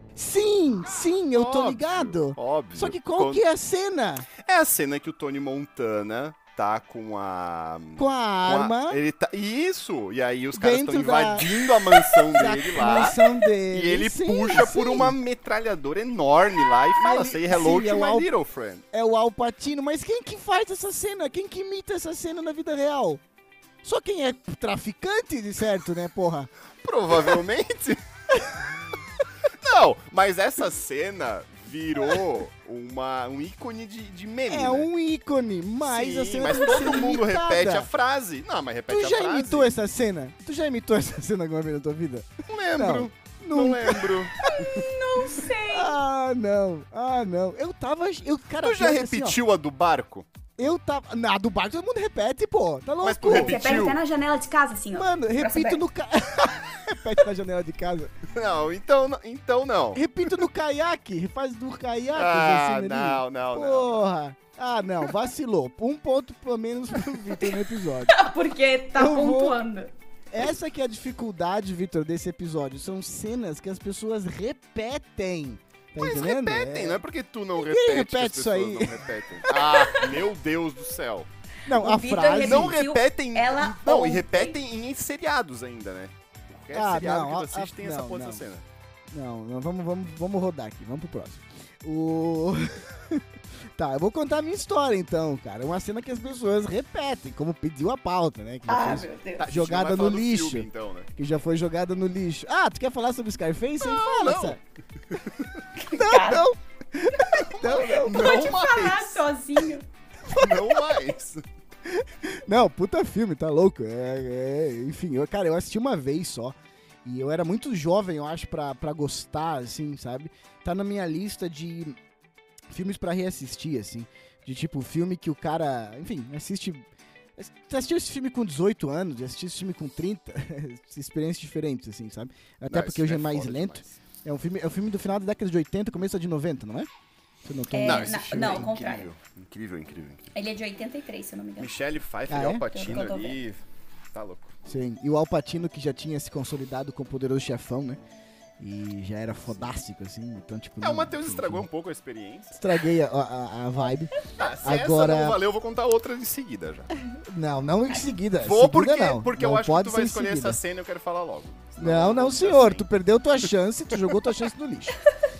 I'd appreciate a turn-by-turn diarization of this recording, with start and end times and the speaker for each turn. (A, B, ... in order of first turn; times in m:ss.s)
0:00.2-0:04.3 A
0:01.3-0:03.4 B
0:04.4-0:18.8 B
0:08.0-0:09.0 A
0:10.6-0:15.2 A
0:17.0-0:18.3 A
0:18.9-0:23.2 A
0:23.8-0:26.5 A
0:26.8-0:28.0 B
0:27.1-0:27.4 A
0:28.3-0:28.7 A
0:29.6-0:34.9 B
0:34.5-0:37.9 A
0:35.8-0:39.8 B
0:38.9-0:44.7 A
0:42.5-0:44.8 B
0:44.4-0:46.0 C
0:45.4-0:49.4 A
0:48.6-0:50.3 B
0:50.6-0:53.8 A
0:53.0-0:54.0 B
0:53.3-0:55.8 C
0:54.9-0:58.1 A
0:58.3-1:00.0 B
1:00.0-1:08.2 A
1:02.1-1:04.0 B
1:08.1-1:09.9 C
1:09.0-1:09.6 A
1:10.3-1:17.0 A
1:16.0-1:21.3 B
1:17.6-1:20.0 A
1:21.7-1:22.8 A
1:21.7-1:24.6 C
1:22.4-1:28.6 B
1:26.7-1:28.4 A
1:29.1-1:44.6 A
1:38.7-1:39.4 C
1:39.4-1:41.1 B
1:43.8-1:45.6 B
1:45.8-1:46.4 C
1:45.9-1:48.4 A
1:47.3-1:49.2 B
1:47.7-1:49.9 C
1:50.3-1:51.4 B
1:50.4-1:50.8 A
1:51.8-2:02.0 A
2:02.7-2:06.9 A
2:07.4-2:16.9 A
2:12.7-2:13.9 B
2:17.4-2:18.8 A
2:17.7-2:19.1 C
2:17.8-2:20.3 B
2:20.3-2:21.7 C
2:21.6-2:24.6 B
2:22.3-2:22.6 A
2:22.7-2:23.4 C
2:24.7-2:28.0 A
2:28.6-2:31.7 A
2:30.8-2:32.6 B
2:32.5-2:35.4 A
2:34.3-2:36.9 B
2:37.0-2:40.6 A
2:38.4-2:42.9 B
2:41.8-2:45.0 A